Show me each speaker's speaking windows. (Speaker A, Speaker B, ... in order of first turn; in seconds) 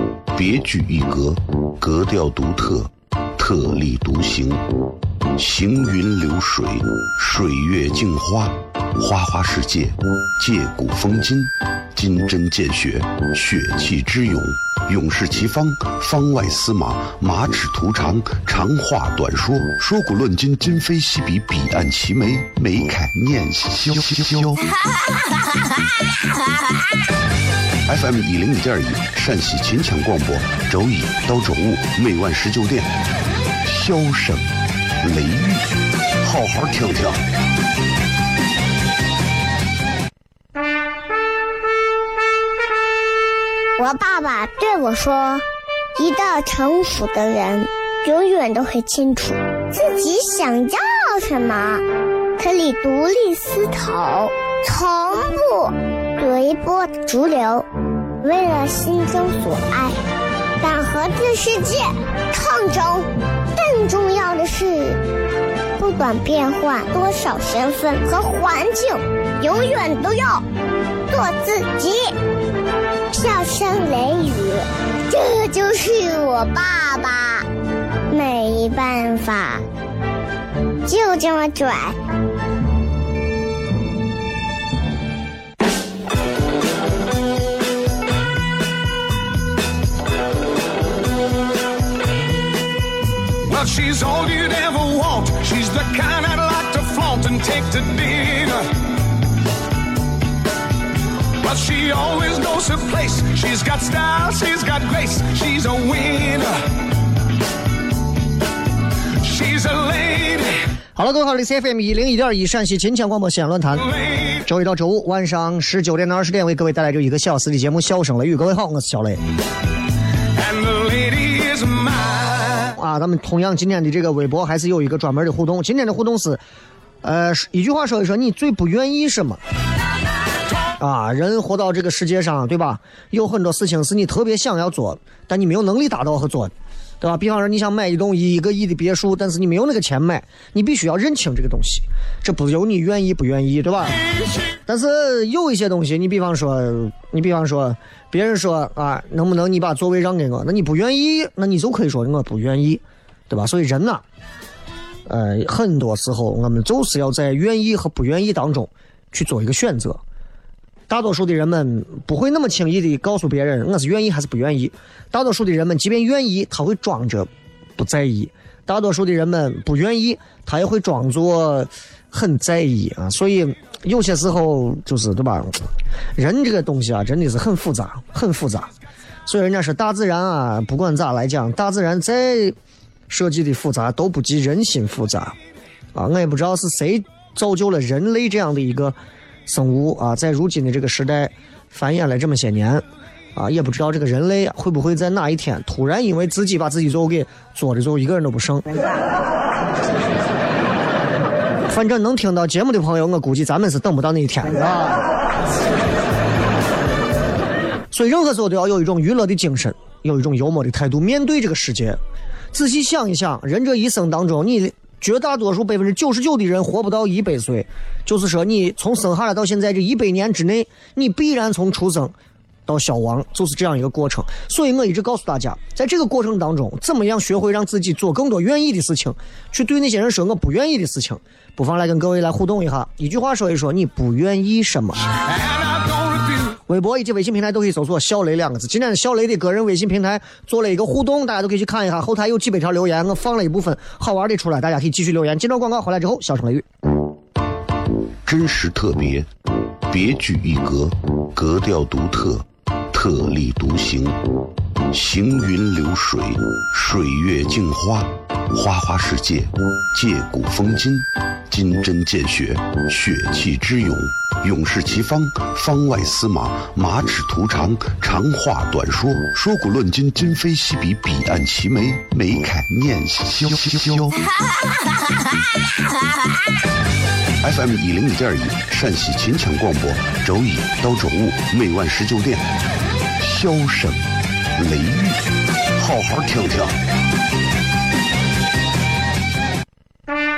Speaker A: 0.3-4.7, 5.3-24.6, 27.9-32.9, 33.6-34.5, 35.0-35.7, 36.2-37.2, 248.3-249.3, 249.9-254.2, 254.9-274.2, 277.4-282.5, 283.2-285.2, 285.8-286.8
Speaker B: 43.8-45.4, 46.0-51.8, 52.4-57.7, 58.2-60.0, 60.6-65.0, 65.8-70.4, 71.1-72.1, 73.1-77.5, 78.1-79.6, 80.9-82.0
Speaker C: 93.5-98.8, 101.4-106.7, 109.2-110.7, 113.8-114.4, 120.3-122.7, 235.2-236.6
Speaker D: 111.0-113.9, 114.4-119.2, 122.7-126.4, 127.0-129.4, 130.8-144.0, 144.7-154.0, 155.1-160.0, 160.9-178.7, 179.3-182.6, 183.1-185.3, 185.9-198.7, 201.7-205.1, 207.9-212.0, 212.5-222.2, 222.7-235.0, 236.7-246.7